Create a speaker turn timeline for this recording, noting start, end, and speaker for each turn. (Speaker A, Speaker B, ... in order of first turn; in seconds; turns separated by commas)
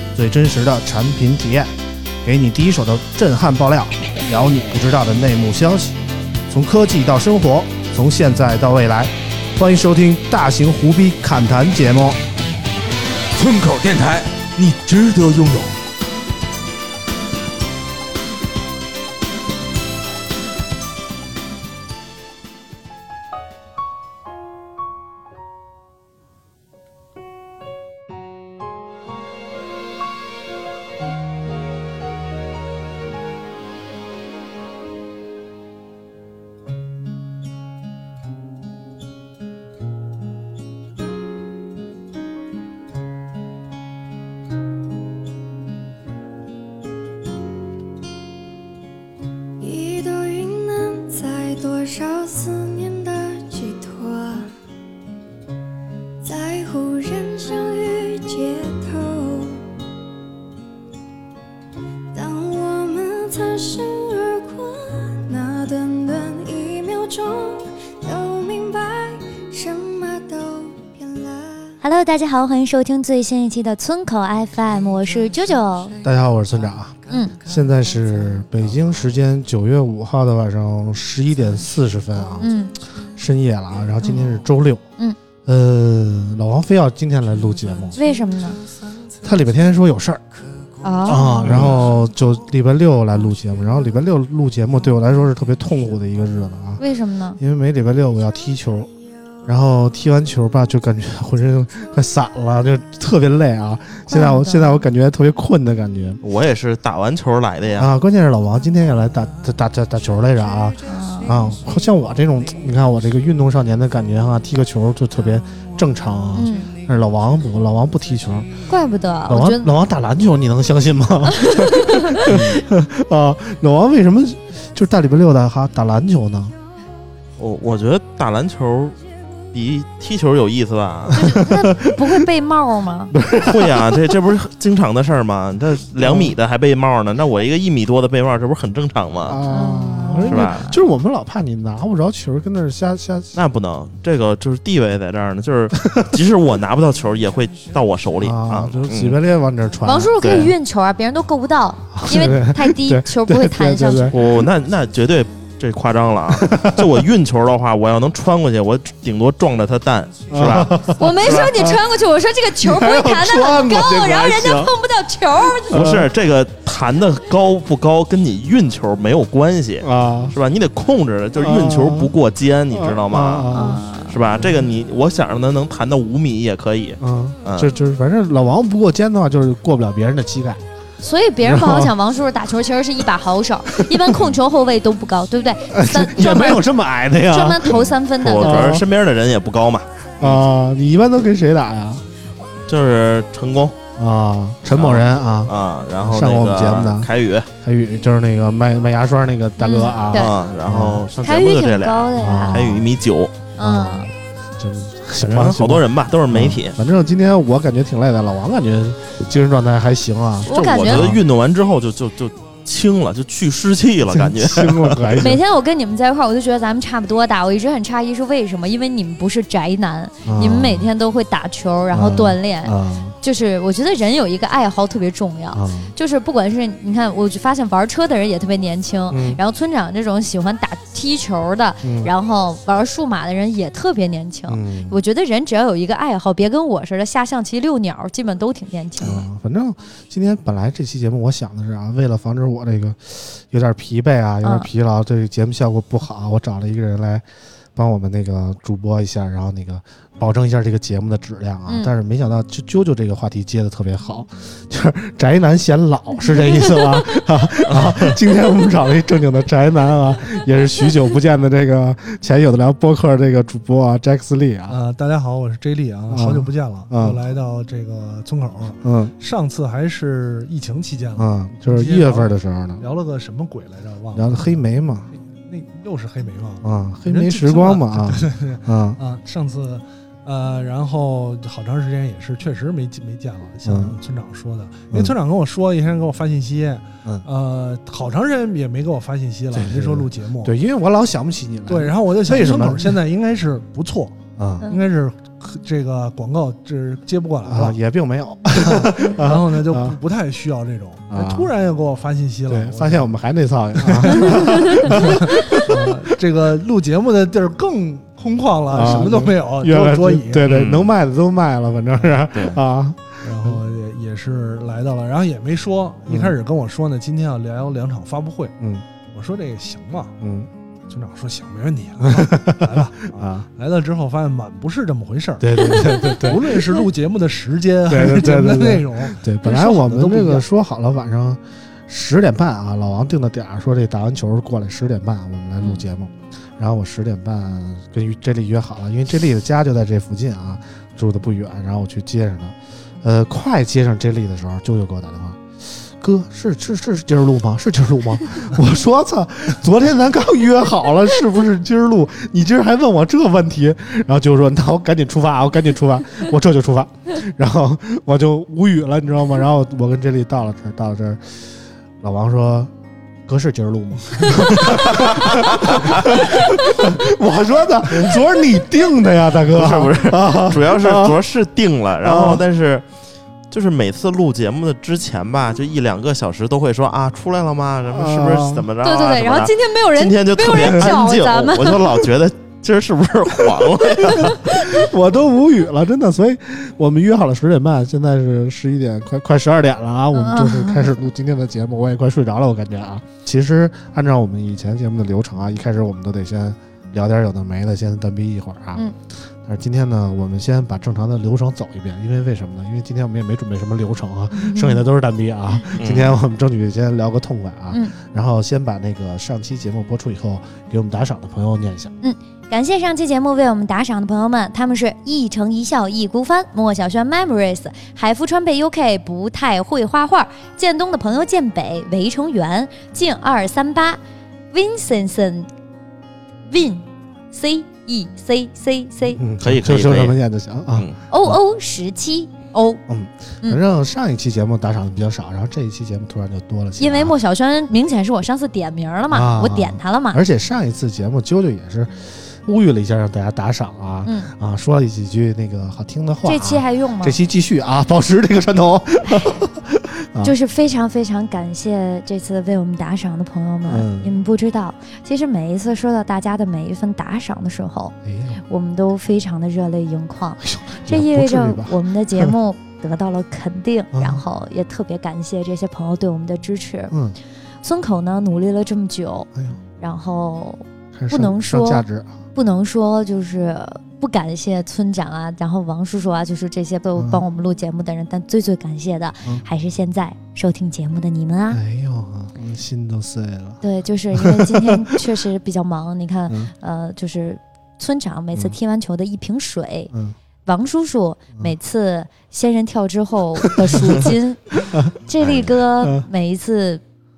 Speaker A: 0.1-1.7, Speaker A: 2.2-12.2, Speaker B: 13.4-15.7, Speaker C: 49.6-54.5, Speaker C: 56.2-59.6, Speaker C: 62.1-71.8, Speaker D: 71.8-76.0, Speaker A: 76.0-82.5, Speaker D: 77.1-77.4, Speaker D: 82.4-82.8, Speaker A: 83.2-84.8, Speaker D: 84.0-84.3, Speaker A: 85.5-88.0, Speaker D: 88.0-88.6, Speaker A: 89.2-90.2, Speaker D: 90.8-91.6, Speaker A: 91.0-96.8, Speaker E: 91.4-91.9, Speaker D: 96.8-97.4, Speaker A: 97.4-98.9, Speaker A: 99.4-106.2, Speaker D: 104.1-104.8, Speaker E: 106.2-107.9, Speaker A: 107.8-118.5, Speaker D: 110.8-111.4, Speaker D: 116.4-116.7, Speaker D: 118.7-119.7, Speaker A: 119.3-126.5, Speaker D: 121.3-122.3, Speaker E: 122.3-122.7, Speaker E: 127.4-129.0, Speaker E: 129.5-131.4, Speaker D: 131.2-133.2, Speaker A: 131.4-132.1, Speaker A: 133.1-134.0, Speaker E: 133.4-139.4, Speaker A: 136.0-136.4, Speaker A: 139.2-143.4, Speaker D: 139.5-140.8, Speaker E: 140.2-140.6, Speaker E: 143.3-149.2, Speaker A: 148.2-150.2, Speaker D: 149.8-154.1, Speaker E: 150.2-150.5, Speaker A: 152.0-154.5, Speaker E: 154.1-161.6, Speaker A: 156.3-157.0, Speaker A: 160.3-161.8, Speaker D: 160.8-165.8, Speaker A: 162.6-164.8, Speaker A: 165.7-166.1, Speaker E: 165.7-173.5, Speaker A: 169.8-170.4, Speaker A: 171.4-172.1, Speaker A: 172.7-173.8, Speaker D: 173.5-174.2, Speaker E: 174.1-177.7, Speaker A: 177.0-180.6, Speaker D: 181.0-186.7, Speaker A: 181.4-181.9, Speaker A: 185.7-187.8, Speaker D: 187.3-188.8, Speaker E: 187.7-190.5, Speaker A: 188.4-188.9, Speaker A: 190.2-192.0, Speaker E: 192.7-193.8, Speaker A: 194.0-197.1, Speaker E: 194.7-197.5, Speaker A: 197.6-201.1, Speaker D: 199.6-200.3, Speaker E: 200.1-203.4, Speaker D: 201.2-202.7, Speaker A: 202.2-202.9, Speaker D: 203.6-204.1, Speaker A: 203.6-211.2, Speaker E: 205.3-206.8, Speaker D: 210.5-211.2, Speaker E: 210.5-215.2, Speaker A: 214.1-215.4, Speaker D: 215.2-239.3, Speaker A: 220.2-220.9, Speaker A: 221.9-223.2, Speaker A: 225.5-225.9, Speaker A: 229.1-229.4, Speaker A: 231.8-232.1, Speaker A: 234.5-235.0, Speaker A: 239.0-264.8, Speaker D: 244.4-244.7, Speaker D: 251.7-251.9, Speaker E: 257.7-258.1, Speaker F: 264.7-274.6, Speaker A: 266.1-267.2, Speaker A: 268.8-269.1, Speaker A: 271.2-272.9, Speaker A: 274.1-275.1, Speaker F: 275.1-290.5, Speaker A: 276.6-279.0, Speaker A: 283.6-284.0, Speaker A: 284.9-285.2, Speaker A: 289.5-293.0, Speaker F: 291.7-294.2, Speaker A: 294.4-294.7, Speaker F: 294.7-297.8, Speaker A: 297.4-300.0, Speaker F: 298.6-303.1, Speaker A: 301.1-301.5, Speaker A: 302.5-306.1, Speaker F: 303.8-310.5, Speaker A: 308.7-313.6, Speaker E: 310.5-310.9, Speaker E: 312.3-312.6, Speaker F: 313.2-318.5, Speaker A: 316.1-316.4, Speaker A: 318.6-318.8, Speaker F: 319.1-320.1, Speaker A: 320.2-320.5, Speaker F: 320.9-330.4, Speaker A: 322.0-323.5, Speaker A: 325.4-326.9, Speaker D: 325.9-326.2, Speaker A: 327.9-361.4, Speaker D: 335.6-335.8, Speaker A: 362.0-362.7, Speaker A: 363.3-371.2, Speaker E: 364.5-366.1, Speaker E: 369.5-372.9, Speaker A: 372.0-372.5, Speaker E: 373.5-384.6, Speaker A: 377.9-378.7, Speaker D: 378.8-382.1, Speaker A: 380.6-380.9, Speaker D: 384.1-384.8, Speaker A: 384.7-398.9, Speaker D: 390.1-390.9, Speaker A: 399.4-411.9, Speaker D: 404.3-404.8, Speaker E: 405.8-406.2, Speaker D: 407.7-407.9, Speaker D: 412.0-424.0, Speaker D: 424.5-425.5, Speaker D: 426.5-429.2, Speaker A: 429.1-431.4, Speaker E: 429.4-430.2, Speaker D: 431.1-432.8, Speaker A: 432.9-437.2, Speaker D: 436.8-440.2, Speaker A: 439.1-450.4, Speaker D: 444.1-444.3, Speaker D: 446.2-447.2, Speaker D: 450.2-458.0, Speaker A: 453.7-454.1, Speaker A: 458.1-458.4, Speaker D: 458.5-466.9, Speaker A: 460.4-462.3, Speaker A: 463.9-464.2, Speaker A: 466.9-467.2, Speaker D: 467.6-481.6, Speaker A: 469.4-469.6, Speaker A: 470.9-472.1, Speaker A: 477.0-477.2, Speaker A: 481.5-485.0, Speaker D: 483.6-489.9, Speaker D: 490.4-496.8, Speaker A: 493.4-494.1, Speaker E: 495.2-495.5, Speaker A: 495.8-496.1